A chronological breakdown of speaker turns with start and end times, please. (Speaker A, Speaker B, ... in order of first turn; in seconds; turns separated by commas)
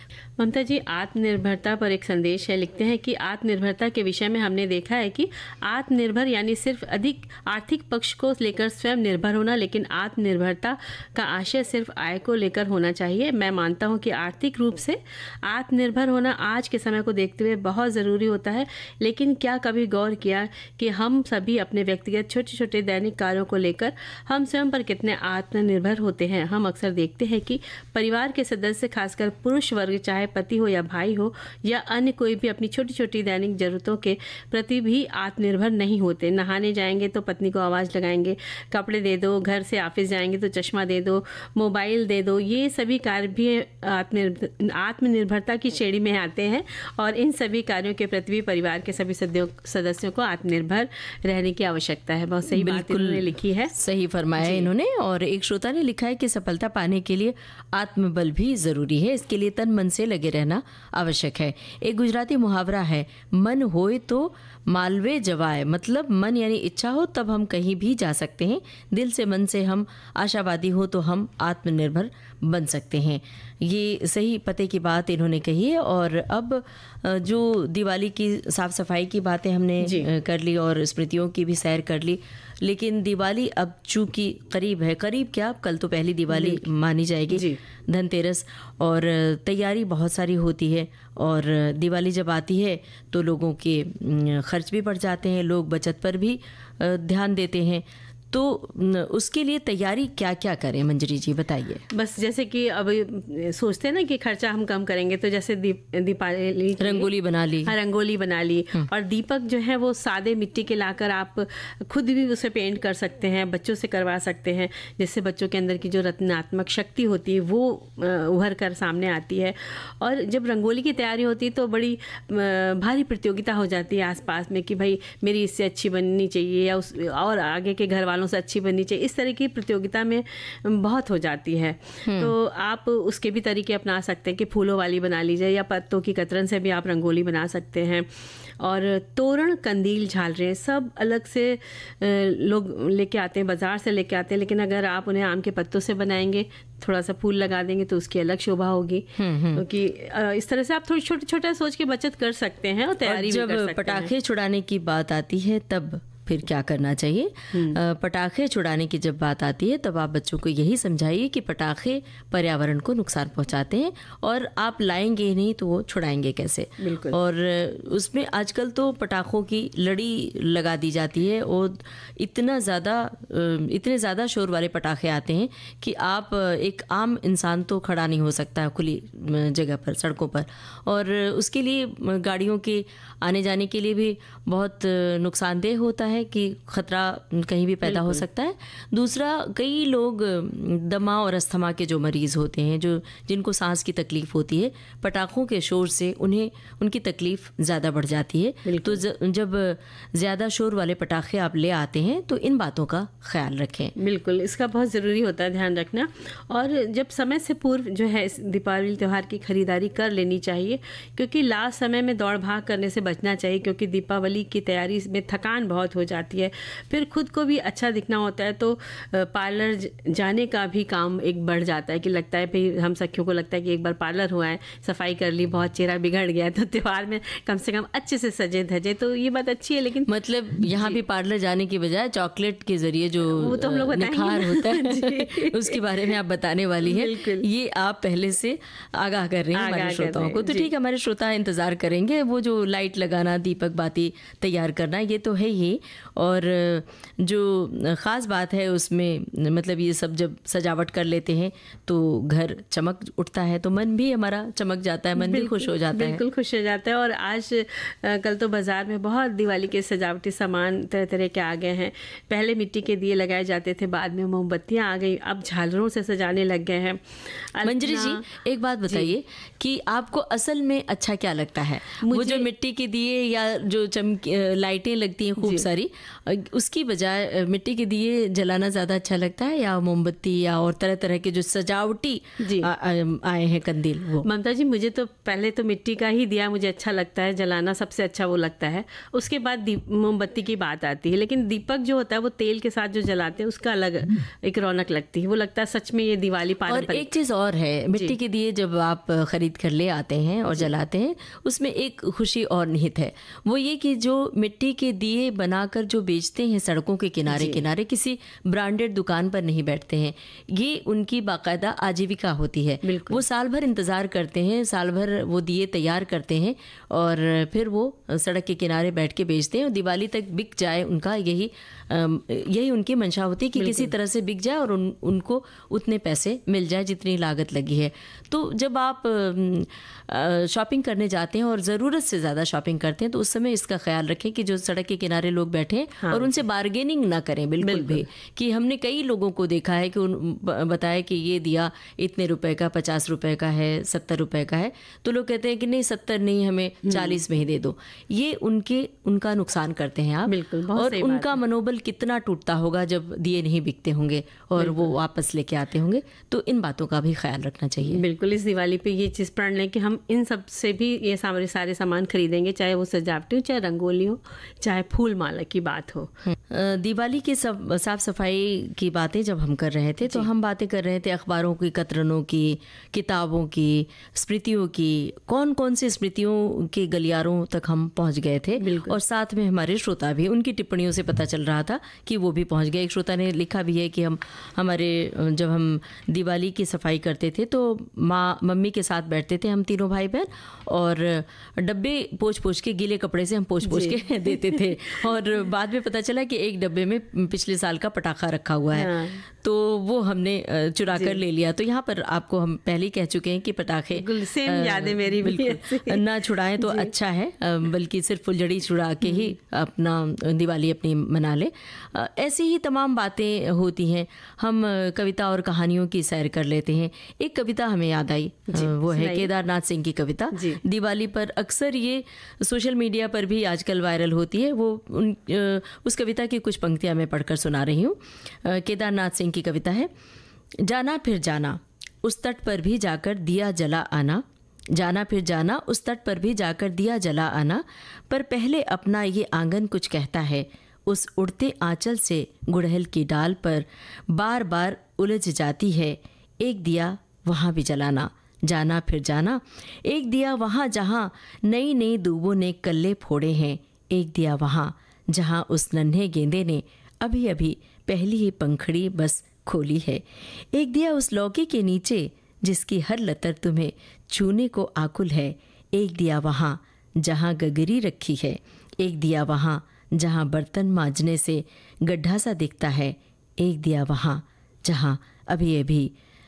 Speaker A: 0.4-53.7, Speaker B: 52.5-101.8, Speaker A: 54.4-54.7, Speaker A: 79.8-80.1, Speaker A: 86.3-86.6, Speaker A: 87.3-87.6, Speaker A: 101.9-107.1, Speaker B: 106.8-107.7, Speaker A: 107.7-138.1, Speaker B: 132.1-132.3, Speaker A: 138.6-154.1, Speaker B: 149.2-149.6, Speaker B: 153.0-203.9, Speaker A: 157.5-157.8, Speaker A: 166.8-167.2, Speaker A: 187.8-188.2, Speaker A: 198.7-199.0, Speaker A: 204.0-231.0, Speaker B: 230.1-256.2, Speaker A: 233.2-236.1, Speaker A: 236.8-237.5, Speaker A: 239.6-240.7, Speaker A: 255.2-268.2, Speaker B: 267.6-284.3, Speaker A: 272.0-272.5, Speaker A: 275.4-275.6, Speaker A: 282.4-282.7, Speaker A: 284.2-297.1, Speaker B: 296.7-358.0, Speaker A: 307.3-307.6, Speaker A: 312.8-313.2, Speaker A: 323.6-323.9, Speaker A: 336.0-336.4, Speaker A: 337.6-338.1, Speaker A: 346.9-347.2, Speaker A: 350.3-351.4, Speaker A: 354.6-354.9, Speaker A: 357.9-366.1, Speaker B: 366.5-429.9, Speaker A: 378.6-379.0, Speaker A: 393.6-394.6, Speaker A: 398.7-399.2, Speaker A: 400.9-401.2, Speaker A: 403.9-406.9, Speaker A: 409.1-409.3, Speaker A: 418.5-419.3, Speaker A: 420.3-420.6, Speaker B: 430.6-475.9